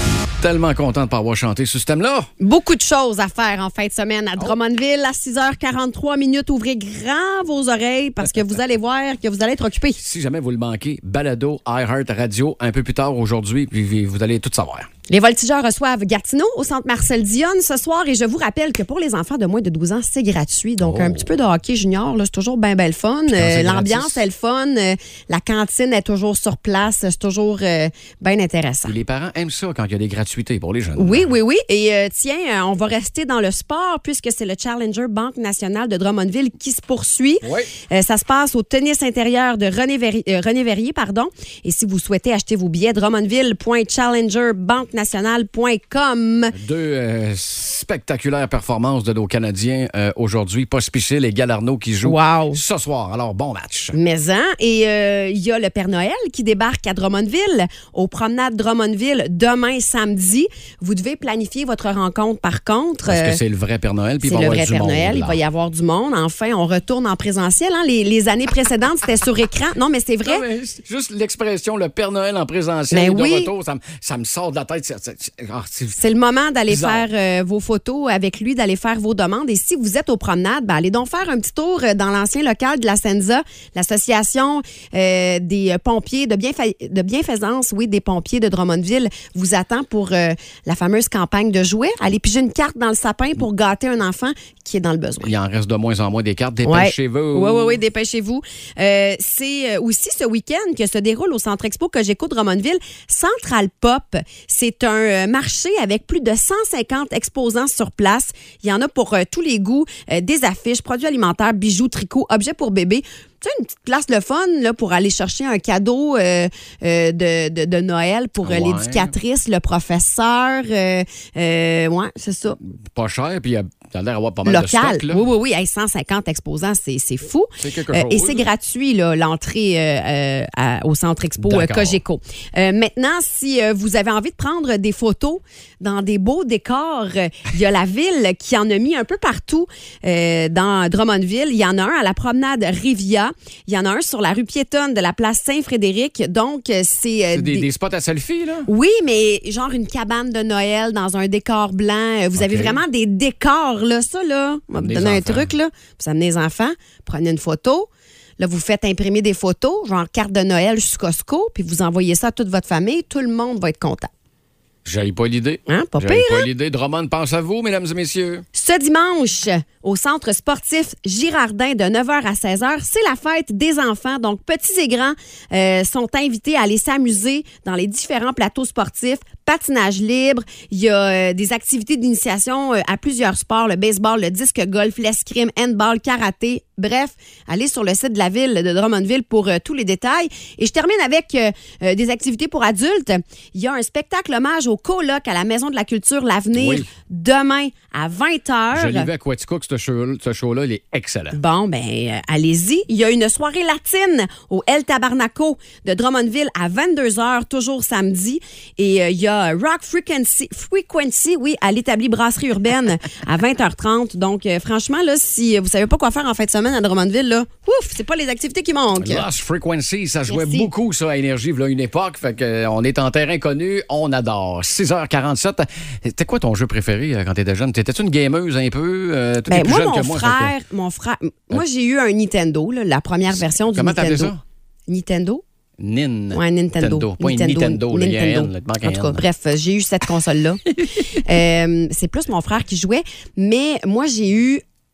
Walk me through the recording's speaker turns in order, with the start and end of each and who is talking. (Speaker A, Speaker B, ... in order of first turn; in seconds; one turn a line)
Speaker A: 0.4-2.3
Speaker B: 2.4-10.0
Speaker A: 10.0-14.9
Speaker B: 15.1-28.9
Speaker A: 20.8-21.3
Speaker A: 23.3-24.2
Speaker A: 28.8-31.3
Speaker B: 30.9-46.5
Speaker A: 37.4-37.7
Speaker A: 46.5-54.0
Speaker B: 52.0-52.6
Speaker B: 53.9-63.4
Speaker A: 63.0-65.4
Speaker B: 64.2-70.5
Speaker A: 70.2-76.0
Speaker B: 72.9-73.5
Speaker B: 76.0-95.3
Speaker A: 76.7-77.0
Speaker A: 95.2-97.8
Speaker B: 96.6-122.6
Speaker A: 118.4-119.1
Speaker A: 122.6-125.2
Speaker B: 124.4-147.7
Speaker A: 127.6-128.5
Speaker A: 131.4-132.0
Speaker A: 147.3-148.7
Speaker B: 148.7-157.9
Speaker A: 152.3-152.8
Speaker A: 154.7-155.5
Speaker B: 158.4-164.1
Speaker A: 164.8-168.4
Speaker B: 165.7-166.5
Speaker B: 168.5-199.1
Speaker A: 196.5-196.9
Speaker A: 198.7-201.4
Speaker B: 201.3-219.2
Speaker A: 219.0-230.5
Speaker B: 220.3-220.7
Speaker B: 229.5-234.3
Speaker A: 233.3-234.4
Speaker B: 234.9-235.4
Speaker A: 235.8-239.2
Speaker B: 236.3-244.6